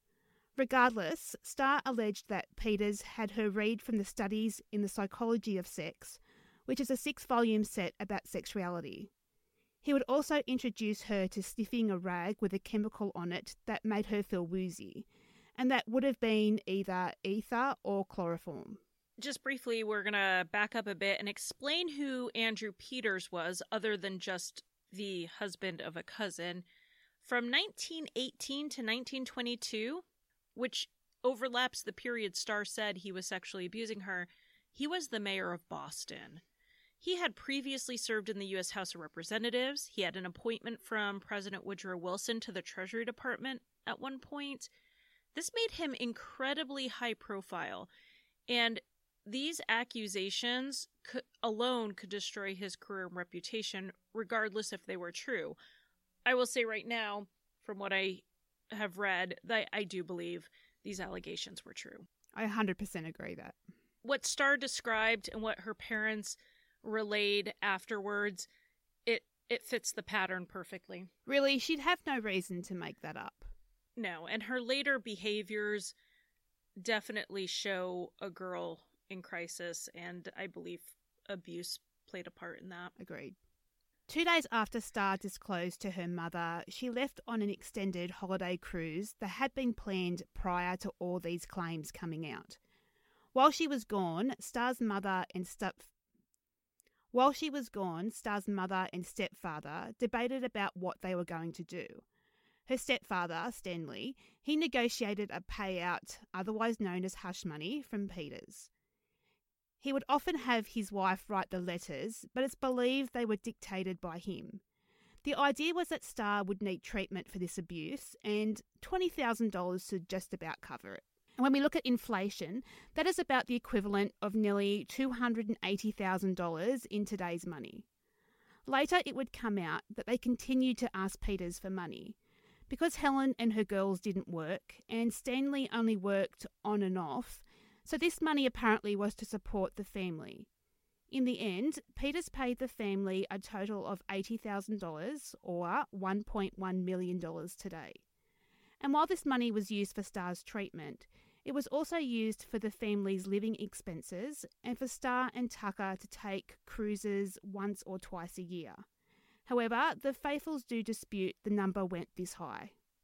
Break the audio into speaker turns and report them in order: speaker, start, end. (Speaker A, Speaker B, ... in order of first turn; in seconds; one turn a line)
Speaker A: 0.6-9.1
Speaker A: 9.8-18.8
Speaker B: 19.2-26.6
Speaker B: 27.2-30.0
Speaker B: 30.5-36.4
Speaker B: 37.0-44.7
Speaker B: 45.3-47.9
Speaker B: 48.5-55.5
Speaker B: 56.2-62.0
Speaker A: 62.3-63.6
Speaker B: 64.0-68.5
Speaker B: 69.0-71.1
Speaker A: 71.2-73.5
Speaker B: 74.0-75.9
Speaker B: 76.8-82.9
Speaker A: 83.0-83.4
Speaker A: 84.1-92.6
Speaker A: 93.3-95.9
Speaker A: 97.1-102.0
Speaker A: 102.7-108.7
Speaker A: 109.8-114.6
Speaker A: 115.2-127.9
Speaker A: 128.7-132.2
Speaker A: 132.7-140.5
Speaker A: 141.1-148.0
Speaker A: 148.8-158.8
Speaker A: 159.4-162.7